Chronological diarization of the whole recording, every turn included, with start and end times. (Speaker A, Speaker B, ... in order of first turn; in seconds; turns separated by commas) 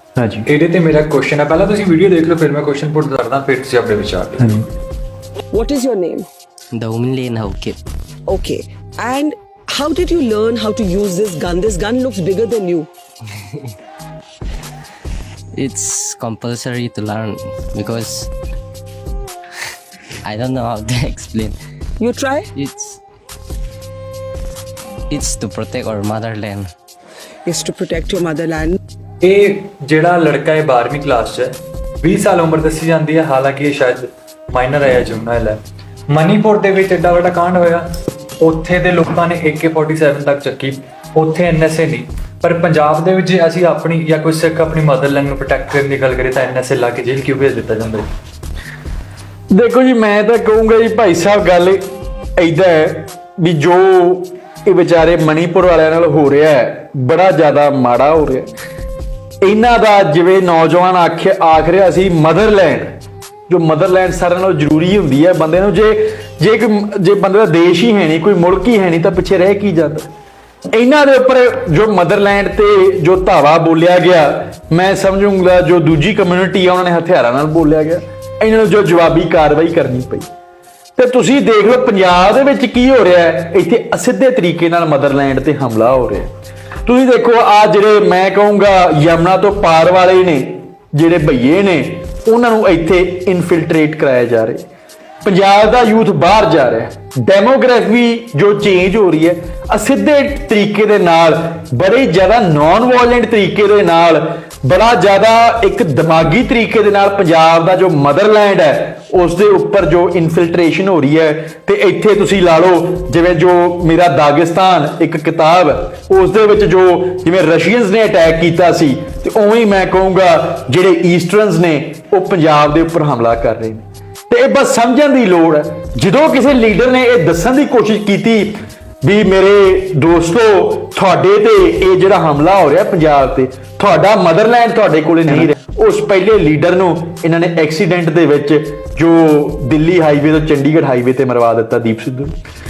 Speaker A: 0.2-0.5, Speaker B: 0.5-4.6, Speaker C: 5.5-6.3, Speaker D: 6.9-7.7, Speaker C: 8.3-12.9, Speaker D: 15.6-18.3, Speaker D: 20.3-21.5, Speaker C: 22.0-22.5, Speaker D: 22.7-23.0, Speaker D: 25.1-26.7, Speaker C: 27.5-28.8, Speaker B: 29.2-35.6, Speaker B: 36.1-37.9, Speaker B: 38.4-48.1, Speaker A: 49.5-51.8, Speaker A: 52.4-58.5, Speaker A: 59.4-63.0, Speaker A: 63.5-70.1, Speaker A: 70.7-80.3, Speaker A: 81.0-86.3, Speaker A: 86.9-94.6, Speaker A: 95.2-142.3